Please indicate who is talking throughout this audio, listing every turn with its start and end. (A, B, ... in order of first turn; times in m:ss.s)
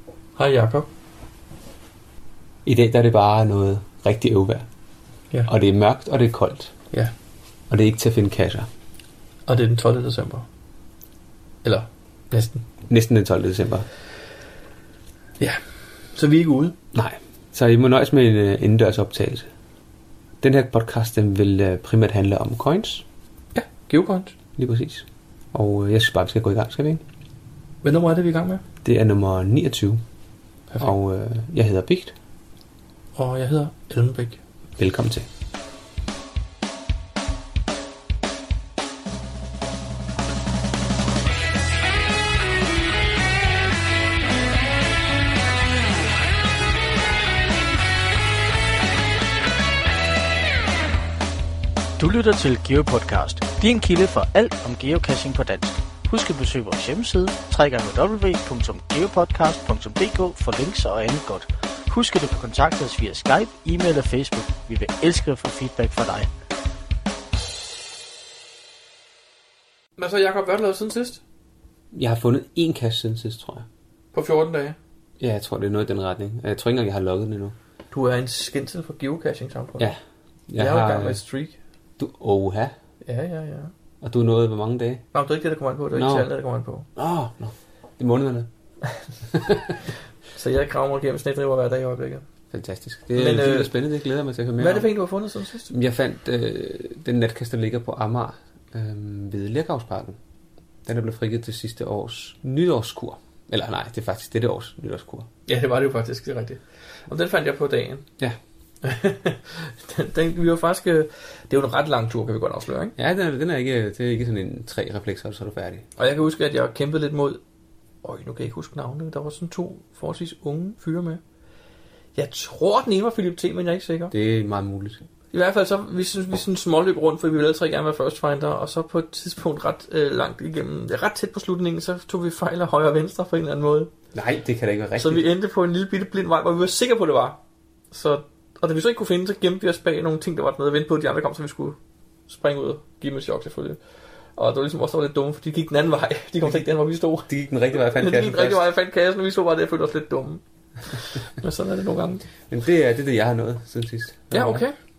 0:00.4-0:00.9 A
0:02.6-0:04.6 B
0:05.5-0:06.8 B
0:07.7-0:08.7 B
0:09.5-0:10.5 A
0:11.6-0:12.6 A
0:12.9-0:13.9 B
0:15.4-0:16.8 A
0:16.9-0:19.5 B
0:20.4-0:23.0 B
0:23.5-0:24.3 A
0:24.6-0:27.0 B
0:27.8-0:28.6 A
0:28.8-0:30.0 B
0:30.8-0:32.2 B
0:33.1-0:34.4 A
0:34.8-0:35.3 B
0:52.0-1:06.3 C
1:10.0-1:11.2 A
1:11.9-1:13.7 B
1:14.1-1:14.8 A
1:15.2-1:17.6 B
1:17.9-1:19.9 A
1:19.8-1:21.2 B
1:20.6-1:21.6 A
1:22.0-1:22.8 B
1:23.0-1:23.7 A
1:24.0-1:25.0 B
1:25.1-1:26.9 A
1:25.9-1:26.3 B
1:26.9-1:28.5 B
1:29.4-1:29.7 B
1:30.3-1:32.3 A
1:32.5-1:34.9 B
1:33.1-1:33.8 A
1:34.6-1:35.7 A
1:35.7-1:40.2 B
1:40.8-1:45.3 B
1:45.5-1:48.0 A
1:48.8-1:52.9 A
1:53.0-1:55.9 B
1:56.0-1:57.4 A
1:58.0-2:01.2 A
2:02.1-2:04.1 A
2:04.1-2:05.0 B
2:05.3-2:13.9 A
2:14.1-2:15.2 B
2:15.0-2:17.4 A
2:17.9-2:21.8 A
2:22.3-2:32.2 A
2:27.3-2:28.7 B
2:32.4-2:34.6 B
2:34.3-2:34.8 A